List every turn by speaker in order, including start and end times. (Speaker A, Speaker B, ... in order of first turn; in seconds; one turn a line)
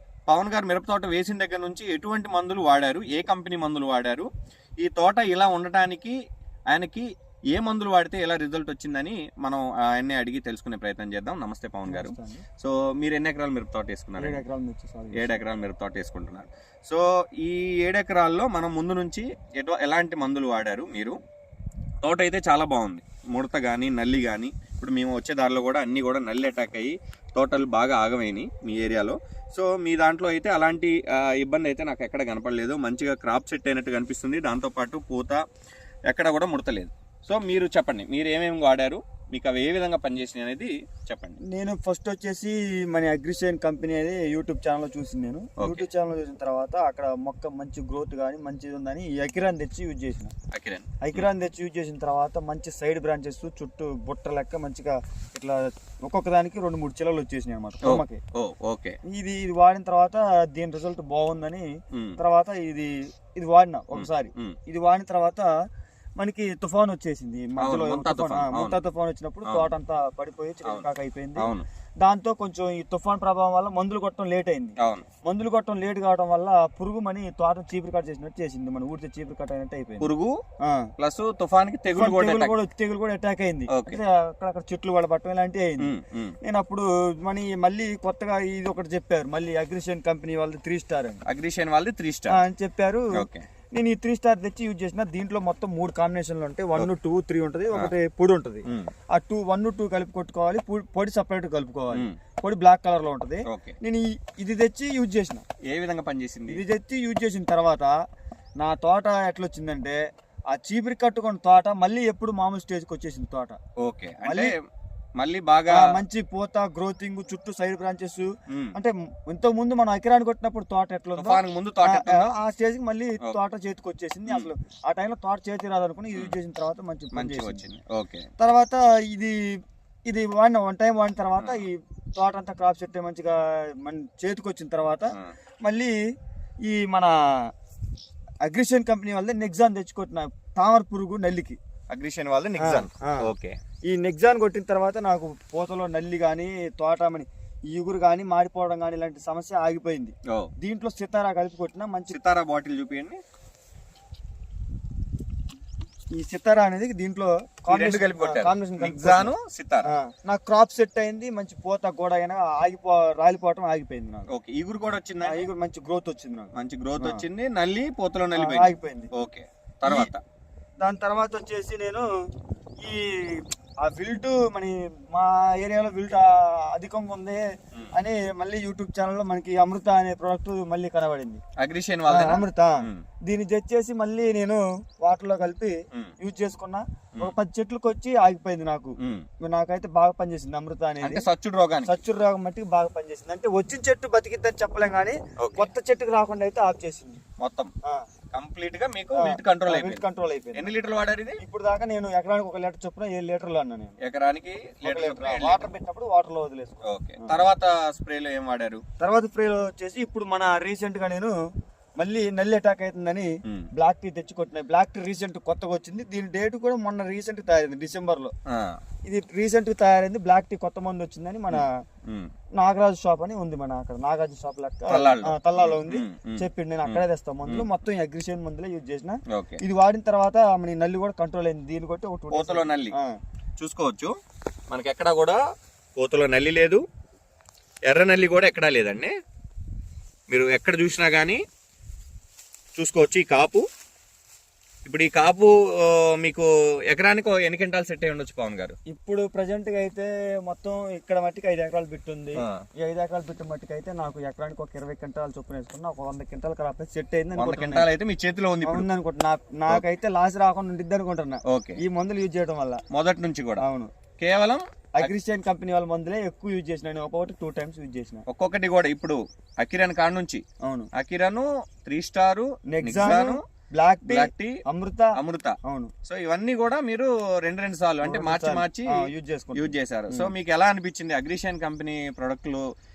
Speaker A: 0.3-4.3
Speaker A: 4.8-6.2
Speaker A: 6.7-14.4
Speaker B: 11.9-12.4
Speaker B: 14.2-15.4
Speaker A: 15.1-21.2
Speaker A: 22.0-35.4
Speaker A: 36.1-41.4
Speaker B: 41.5-50.3
Speaker A: 45.6-45.9
Speaker A: 50.5-51.3
Speaker B: 51.0-58.2
Speaker A: 57.8-59.0
Speaker B: 59.1-65.5
Speaker A: 61.9-62.2
Speaker A: 63.9-64.6
Speaker B: 66.2-80.1
Speaker A: 67.6-68.8
Speaker A: 71.4-71.7
Speaker A: 74.8-75.1
Speaker A: 80.0-80.4
Speaker A: 81.0-82.5
Speaker B: 81.9-85.9
Speaker A: 83.7-84.0
Speaker A: 85.8-86.3
Speaker B: 86.4-91.2
Speaker A: 91.3-92.4
Speaker B: 92.3-93.1
Speaker A: 93.2-93.5
Speaker B: 93.7-105.4
Speaker A: 103.5-103.8
Speaker A: 105.7-106.6
Speaker B: 106.5-107.9
Speaker B: 108.6-110.0
Speaker B: 110.5-113.6
Speaker A: 113.8-114.6
Speaker B: 114.2-114.5
Speaker A: 115.2-115.9
Speaker B: 115.7-127.6
Speaker A: 118.5-118.8
Speaker A: 121.2-122.2
Speaker A: 127.1-128.3
Speaker B: 128.4-129.4
Speaker B: 130.1-135.9
Speaker B: 136.7-137.1
Speaker B: 138.5-141.6
Speaker A: 141.9-143.6
Speaker B: 142.6-143.3
Speaker B: 143.9-152.2
Speaker A: 152.1-153.2
Speaker B: 156.1-159.3
Speaker A: 157.7-159.9
Speaker B: 159.9-164.3
Speaker A: 164.3-165.5
Speaker B: 165.2-167.2
Speaker A: 166.6-170.2
Speaker B: 168.3-169.1
Speaker B: 169.8-170.1
Speaker B: 170.8-172.1
Speaker B: 172.8-177.4
Speaker B: 177.9-181.4
Speaker A: 181.6-183.0
Speaker B: 182.1-191.2
Speaker A: 191.0-192.0
Speaker B: 191.8-197.2
Speaker A: 195.4-195.7
Speaker A: 197.4-197.7
Speaker A: 198.3-200.0
Speaker B: 199.1-200.7
Speaker A: 200.6-201.4
Speaker B: 201.4-204.0
Speaker A: 204.0-205.7
Speaker B: 204.8-207.3
Speaker A: 206.9-208.8
Speaker B: 209.0-211.3
Speaker B: 212.0-218.3
Speaker A: 218.5-218.8
Speaker B: 219.1-221.7
Speaker A: 221.5-222.3
Speaker B: 222.6-233.2
Speaker A: 224.9-227.7
Speaker A: 229.3-229.6
Speaker A: 232.3-232.9
Speaker A: 233.6-234.1
Speaker A: 234.7-235.4
Speaker A: 236.0-236.8
Speaker A: 237.9-239.1
Speaker A: 240.3-241.4
Speaker A: 242.8-243.7
Speaker A: 244.8-248.8
Speaker B: 248.9-257.9
Speaker A: 252.4-252.6
Speaker A: 257.4-258.9
Speaker B: 258.6-262.8
Speaker A: 261.5-261.8
Speaker A: 262.9-263.6
Speaker B: 263.6-263.9
Speaker A: 264.2-265.1
Speaker B: 265.0-268.2
Speaker A: 268.3-270.4
Speaker A: 270.9-273.4
Speaker B: 272.7-275.1
Speaker A: 274.1-274.6
Speaker A: 275.2-282.6
Speaker B: 275.6-275.9
Speaker B: 278.0-280.3